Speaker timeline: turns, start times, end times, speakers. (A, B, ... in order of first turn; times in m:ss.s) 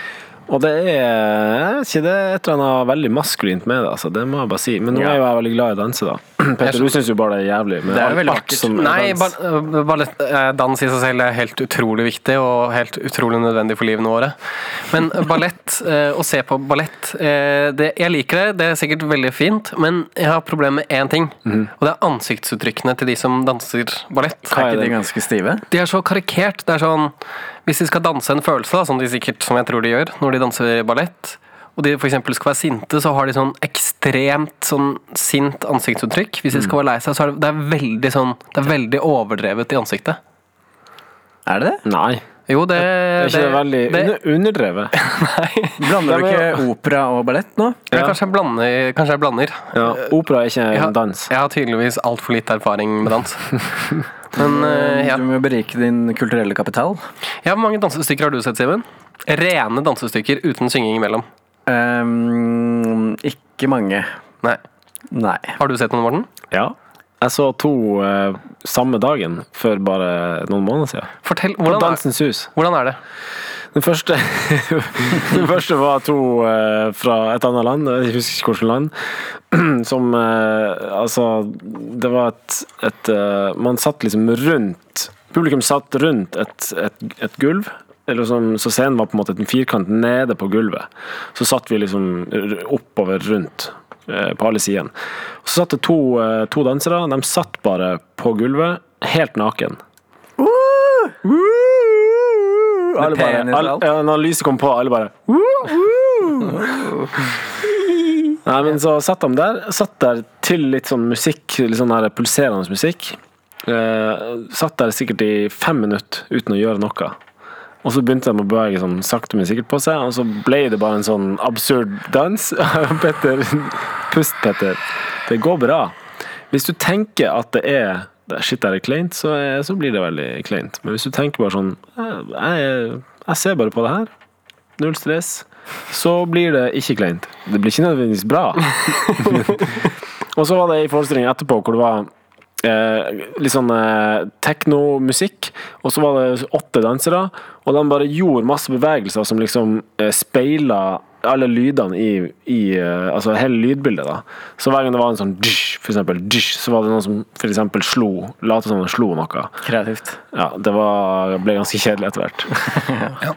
0:00.5-0:09.3 A
0:04.9-0:05.2 B
0:06.6-0:06.9 C
0:07.9-0:08.8 B
0:08.8-0:14.4 C
0:14.9-0:24.6 C
0:24.5-0:25.0 A
0:24.5-0:25.6 B
0:25.7-0:27.1 C
0:27.7-0:40.2 C
0:41.5-0:41.8 B
0:41.8-0:42.2 A
0:42.5-0:44.2 C
0:42.8-0:44.9 A
0:44.9-0:45.9 C
0:45.8-0:47.9 B
0:46.0-0:46.6 A
0:47.9-0:48.2 A
0:47.9-0:50.1 C
0:49.7-0:51.3 A
0:50.7-0:53.6 C
0:54.3-0:55.2 C
0:54.4-0:57.0 B
0:57.4-1:01.3 C
1:01.7-1:04.1 B
1:05.1-1:05.6 B
1:05.6-1:06.3 C
1:06.5-1:11.1 A
1:11.2-1:13.0 C
1:11.7-1:12.5 A
1:13.7-1:34.9 A
1:35.4-1:39.8 A
1:40.4-1:41.2 B
1:41.3-1:42.1 A
1:42.5-1:43.9 B
1:43.0-1:46.7 A
1:46.4-1:47.3 B
1:48.4-1:57.2 A
1:57.8-2:06.0 A
2:06.5-2:14.1 A
2:14.8-2:19.6 A
2:20.3-2:22.1 A
2:22.6-2:39.5 A
2:39.6-2:40.2 B
2:40.3-2:42.6 A
2:42.8-2:43.1 B